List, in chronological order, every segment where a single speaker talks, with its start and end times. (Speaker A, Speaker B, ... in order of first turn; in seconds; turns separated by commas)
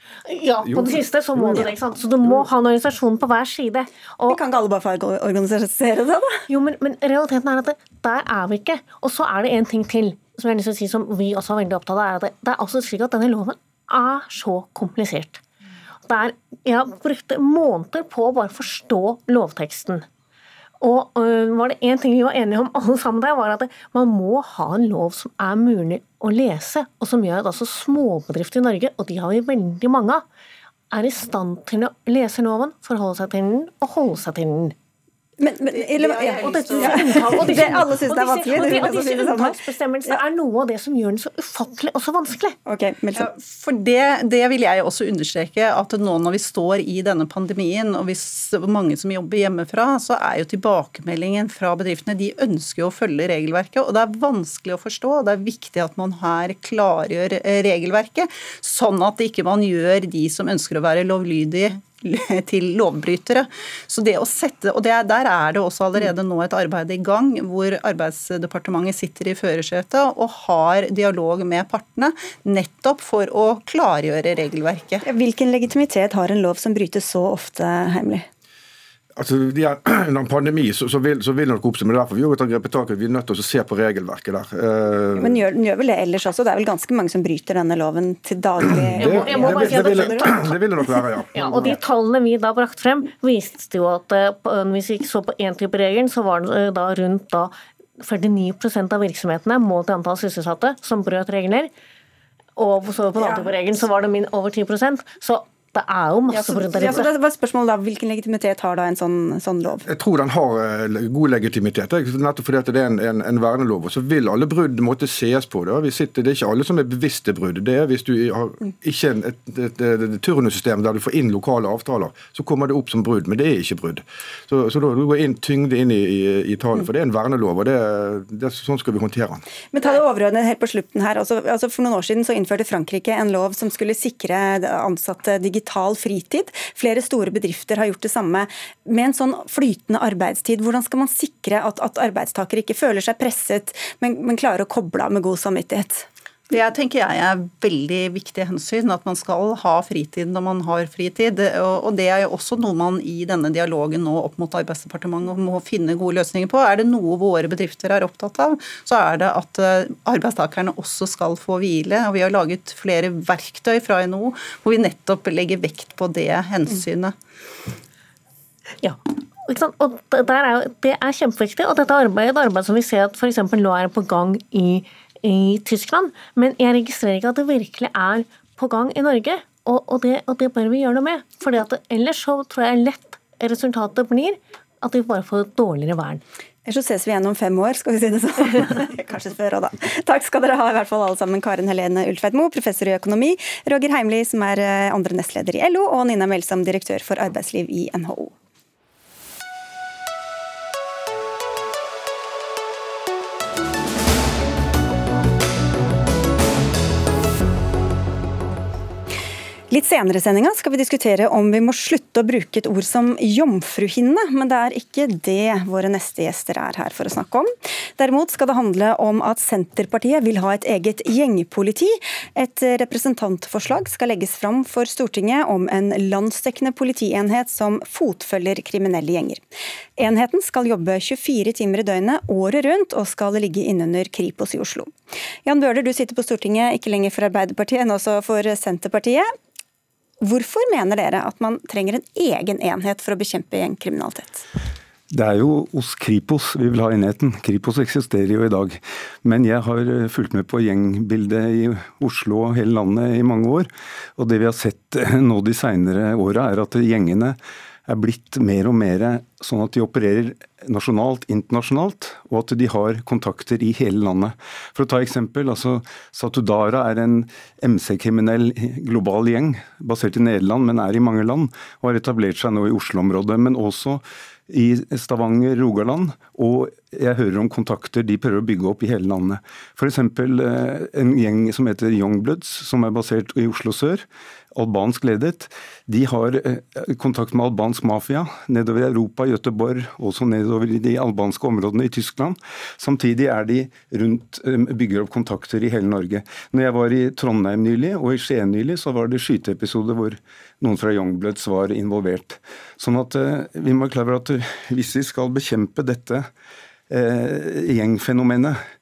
Speaker A: 0.3-4.4, Speaker B: 4.3-6.4, Speaker A: 6.5-15.4, Speaker A: 16.1-20.1, Speaker A: 20.8-30.2, Speaker A: 30.9-34.7, Speaker B: 35.4-39.6, Speaker C: 35.7-37.8, Speaker A: 36.4-42.6, Speaker B: 42.6-43.3, Speaker C: 43.1-75.0, Speaker B: 75.0-78.3, Speaker D: 79.2-85.4, Speaker B: 85.2-90.5, Speaker D: 88.7-91.8, Speaker A: 89.0-90.3, Speaker A: 91.3-101.7, Speaker A: 102.5-107.1, Speaker B: 106.3-109.8, Speaker D: 109.8-129.4, Speaker B: 129.7-146.1, Speaker C: 146.5-167.1, Speaker A: 168.8-186.2, Speaker B: 186.7-198.3, Speaker B: 209.7-229.4, Speaker B: 230.0-234.9, Speaker B: 235.4-239.3, Speaker B: 240.2-244.4, Speaker E: 245.1-306.3, Speaker E: 306.9-308.6